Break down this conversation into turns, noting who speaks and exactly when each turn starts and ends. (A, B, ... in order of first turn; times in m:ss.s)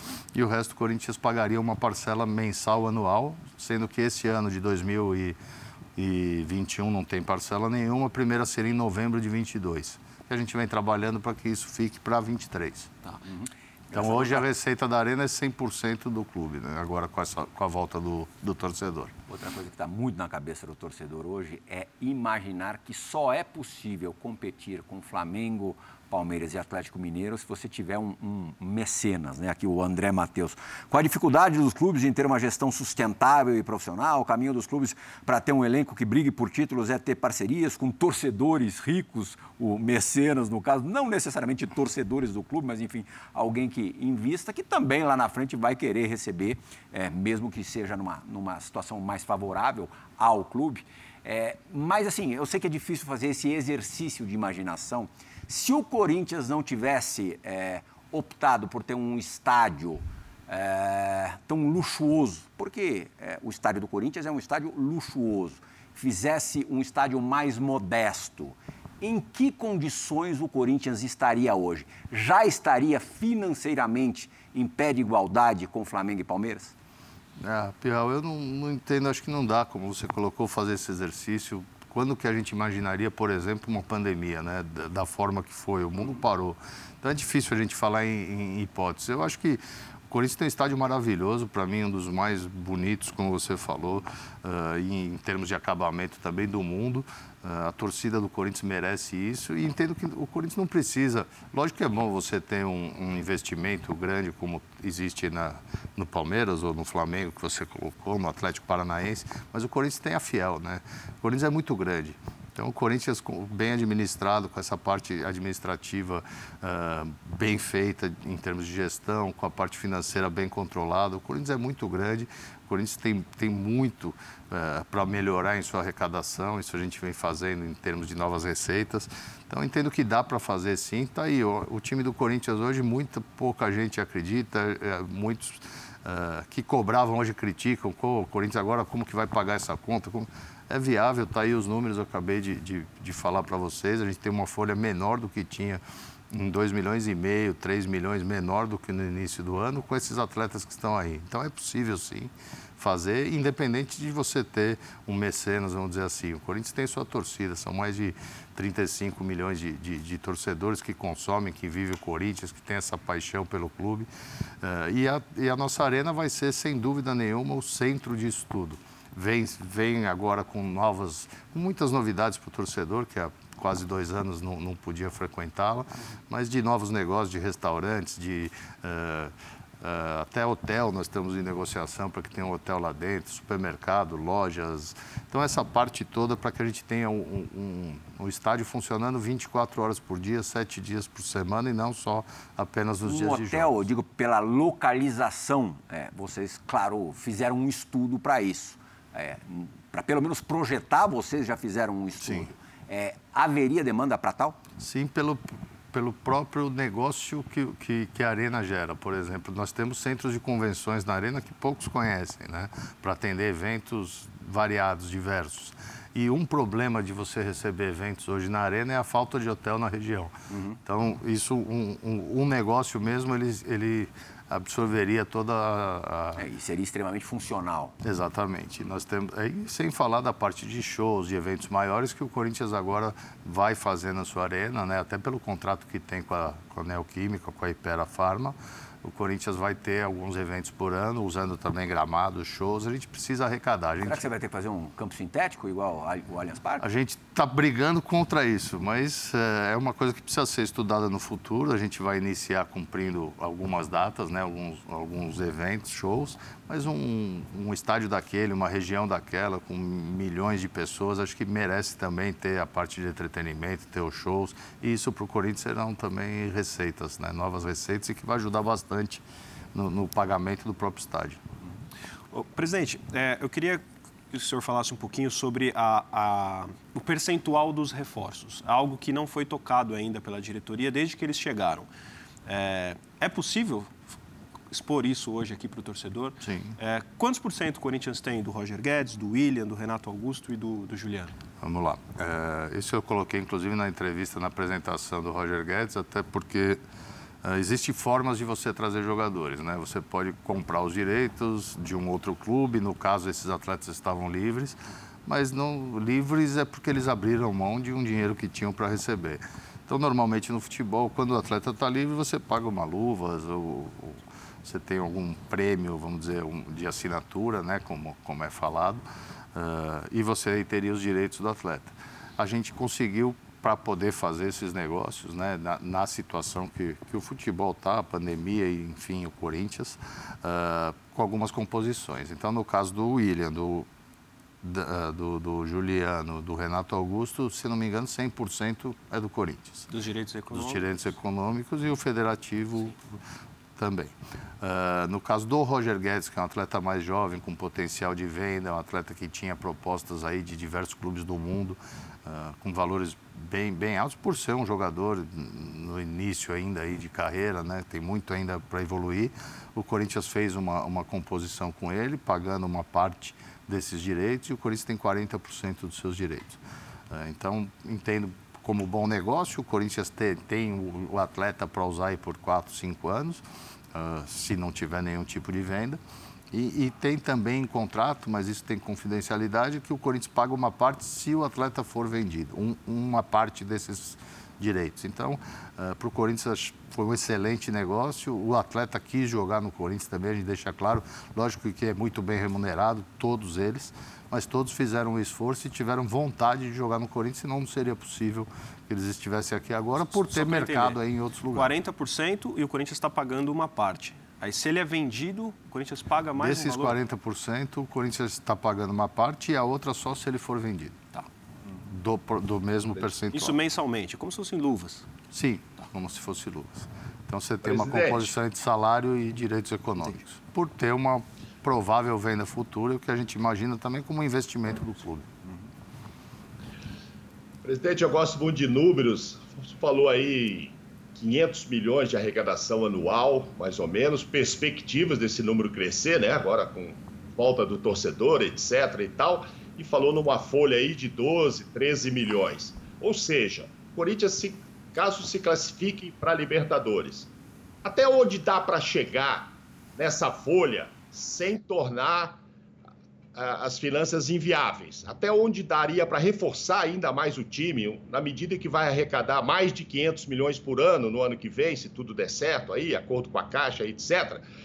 0:00.3-0:05.4 A
0:06.0-0:13.0 A
0:13.1-0:14.4 B
0:13.9-0:19.1 A
0:19.3-1:16.7 B
1:17.4-2:25.8 A
2:26.3-2:44.1 A
2:44.6-3:13.7 A
3:13.1-3:24.6 B
3:22.2-3:22.5 A
3:24.8-3:40.3 A
3:40.5-3:40.8 B
3:40.9-3:46.5 A
3:46.4-3:47.9 B
3:48.0-4:04.3 A
4:04.0-4:06.8 B
4:06.8-4:29.2 A
4:29.7-4:31.4 A
4:32.3-4:41.9 C
4:42.5-4:44.0 C
4:44.7-4:51.4 C
4:46.4-4:46.8 A
4:51.6-4:56.8 A
4:57.4-5:33.9 A
5:34.6-5:39.9 A
5:39.9-5:40.9 C
5:40.5-5:43.2 A
5:43.8-6:13.4 A
6:13.9-6:16.0 A
6:16.5-6:41.7 A
6:40.1-6:41.0 C
6:41.5-6:47.0 C
6:46.4-6:51.1 A
6:51.8-6:53.6 A
6:53.3-6:55.1 C
6:55.3-7:05.3 A
6:57.6-6:58.3 D
7:07.6-7:27.3 D
7:27.8-7:32.4 D
7:33.4-7:44.4 D